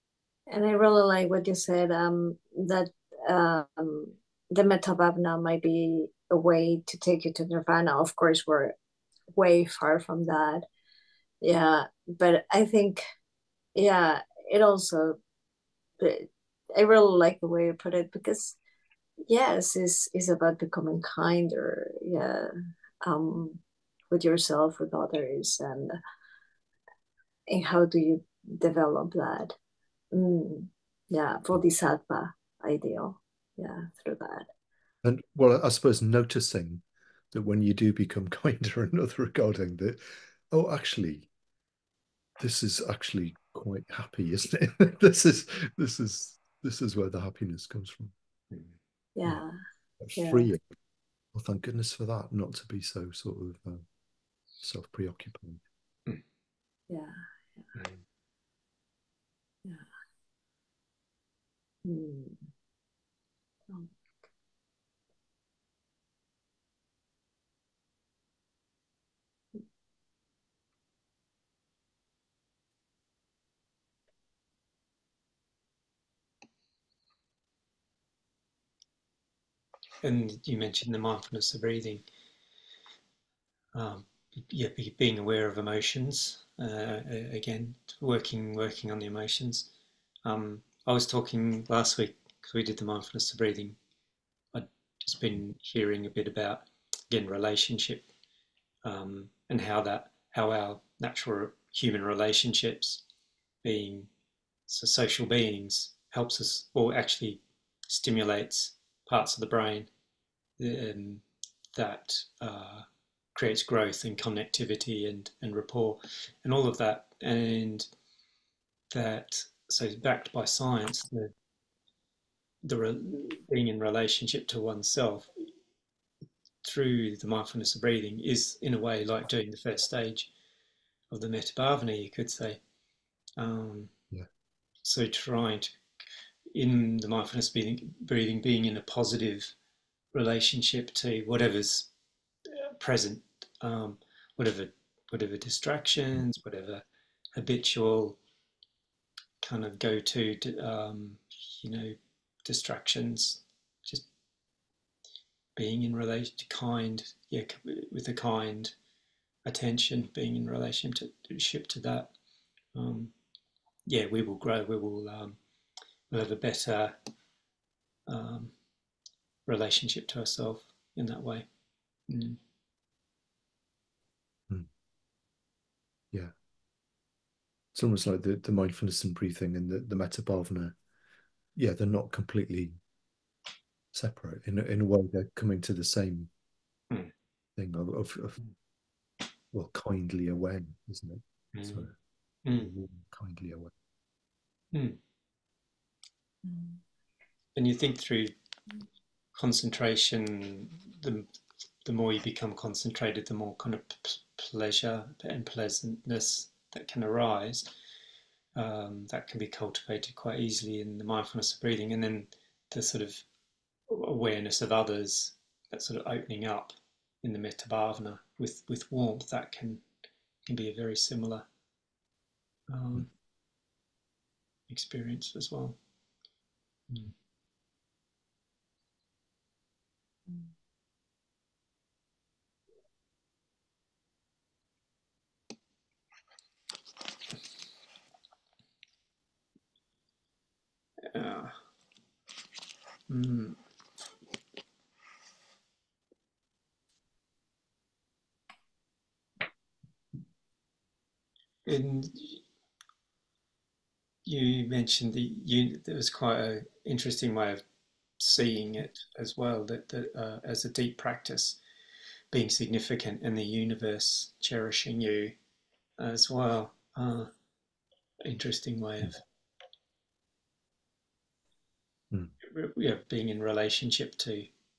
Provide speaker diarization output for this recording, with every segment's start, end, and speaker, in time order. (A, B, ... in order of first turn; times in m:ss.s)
0:00.5-0:08.7 A
0:09.3-0:10.6 A
0:11.4-0:13.0 A
0:13.8-0:15.2 A
0:16.0-0:18.6 A
0:19.3-0:22.5 A
0:23.0-0:26.0 A
0:27.5-0:29.5 A
0:30.1-0:34.5 A
0:35.0-0:41.3 B
0:42.4-0:48.1 B
0:49.1-0:49.6 A
0:50.0-0:50.6 B
0:50.2-0:50.5 A
0:51.3-0:53.8 B
0:54.6-0:55.6 B
0:56.9-0:57.7 A
1:01.8-1:02.5 A
1:20.0-1:22.0 C
1:23.7-1:29.7 C
1:30.2-1:33.8 C
1:34.5-1:38.0 C
1:38.8-1:43.0 C
1:43.6-1:44.1 C
1:44.7-1:49.9 C
1:50.6-1:57.9 C
1:58.9-2:01.3 C
2:02.6-2:05.5 C
2:06.6-2:10.3 C
2:11.1-2:12.6 C
2:13.4-2:13.9 C
2:14.8-2:15.7 C
2:16.5-2:19.5 C
2:20.1-2:21.9 C
2:22.4-2:26.8 C
2:27.3-2:28.2 C
2:29.4-2:34.0 C
2:35.6-2:38.7 C
2:39.4-2:42.1 C
2:42.7-2:43.1 C
2:43.8-2:45.4 C
2:46.1-2:47.0 C
2:48.1-2:48.5 C
2:49.4-2:51.5 C
2:52.1-2:52.4 C
2:57.7-3:00.8 B
3:01.6-3:02.8 B
3:03.9-3:06.3 B
3:07.6-3:08.4 B
3:09.5-3:11.9 B
3:11.5-3:11.9 C
3:12.4-3:12.7 C
3:12.5-3:13.7 B
3:14.7-3:15.0 C
3:16.5-3:16.8 A
3:17.5-3:18.3 C
3:19.3-3:21.3 C
3:21.8-3:27.7 C
3:28.5-3:33.2 C
3:33.9-3:39.8 C
3:40.4-3:41.5 C
3:42.7-3:43.1 C
3:44.7-3:45.8 C
3:46.9-3:47.1 C
4:01.0-4:01.6 C
4:03.1-4:03.6 C
4:11.6-4:12.4 C
4:14.2-4:17.6 C
4:18.2-4:21.6 C
4:22.3-4:25.3 C
4:26.0-4:27.3 C
4:28.2-4:29.2 C
4:32.4-4:34.5 C